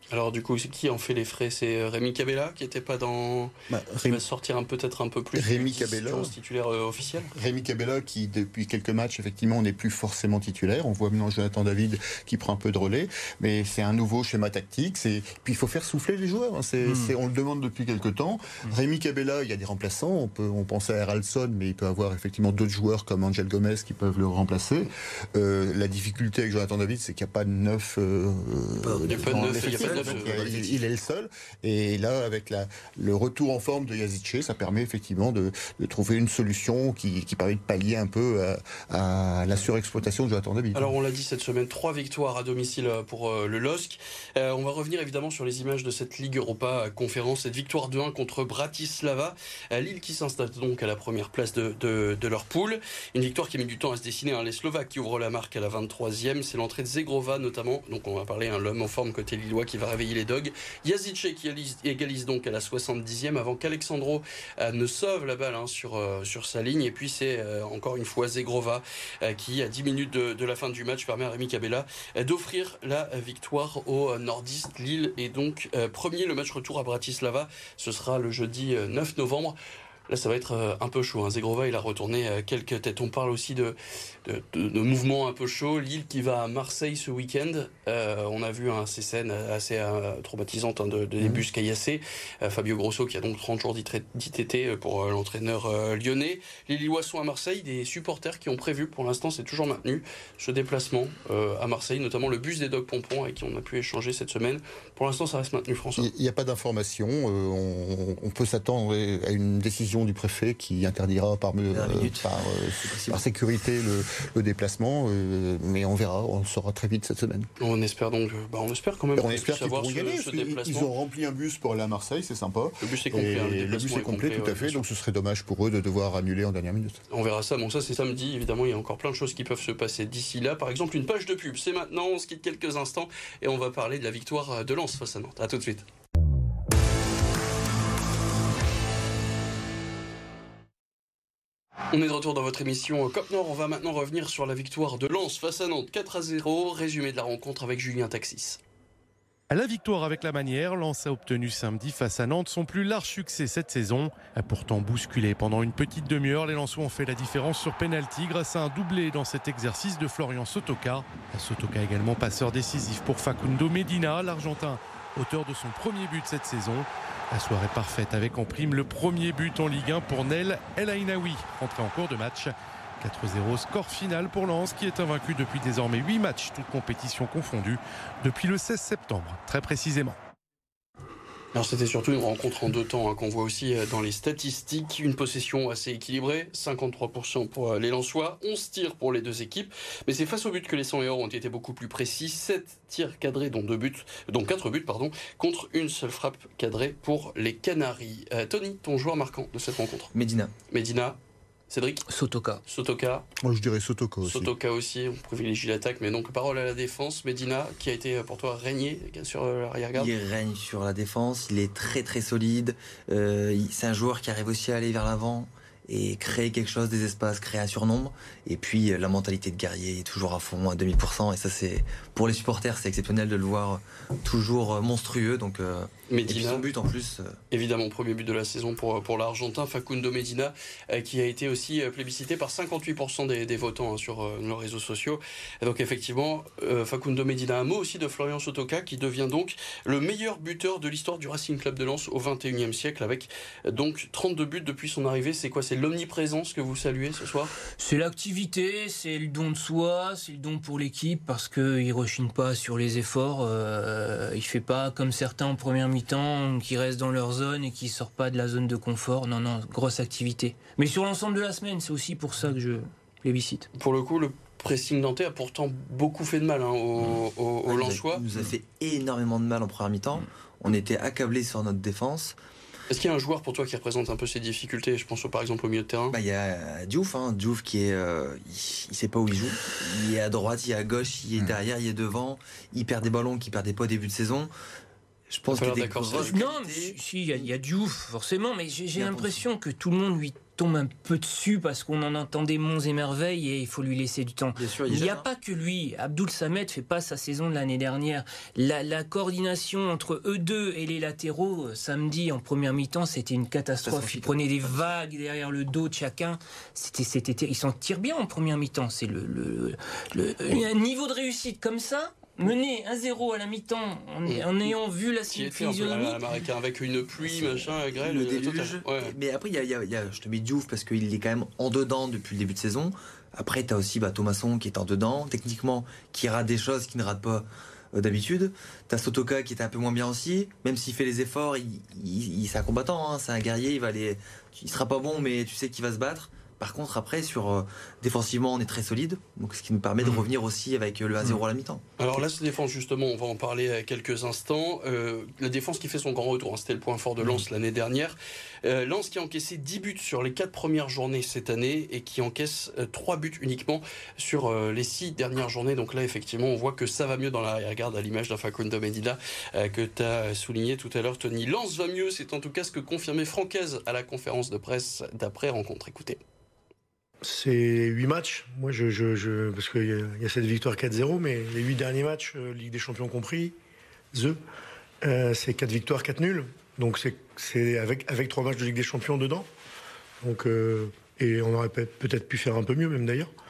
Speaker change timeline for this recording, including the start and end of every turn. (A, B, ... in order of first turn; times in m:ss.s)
0:00.1-0:07.3 A
0:03.7-0:04.2 B
0:05.4-0:06.3 B
0:07.3-0:40.9 B
0:16.9-0:17.1 C
0:28.8-0:30.8 D
0:29.1-0:30.7 A
0:40.7-1:19.6 A
1:20.1-1:46.1 A
1:46.0-1:57.5 B
1:51.7-1:53.2 D
1:57.6-2:00.9 A
1:59.2-2:07.0 B
2:02.8-2:04.8 A
2:07.1-2:15.8 A
2:21.9-2:28.6 A
2:29.5-3:00.2 E
3:01.5-3:20.1 A
3:20.1-3:20.5 D
3:20.7-3:21.2 A
3:21.7-3:22.1 A
3:22.1-3:22.6 C
3:22.7-3:23.2 A
3:23.4-3:24.5 B
3:24.2-3:30.1 A
3:30.0-3:47.4 D
3:46.1-3:46.7 A
3:47.5-4:07.6 A
4:07.8-4:23.7 C
4:23.8-4:28.2 A
4:27.0-4:32.4 D
4:32.9-4:36.2 A
4:36.1-4:44.5 D
4:45.3-4:47.5 D
4:45.5-4:46.4 A
4:46.1-5:16.2 C
4:49.0-4:49.4 D
4:54.6-4:55.3 D
5:03.8-5:04.9 D
5:14.3-5:14.7 A
5:15.3-5:19.1 A
5:17.2-5:41.8 D
5:42.0-6:06.2 A
6:07.2-6:13.6 F
6:14.1-6:14.4 F
6:15.0-6:19.5 F
6:20.2-6:23.3 F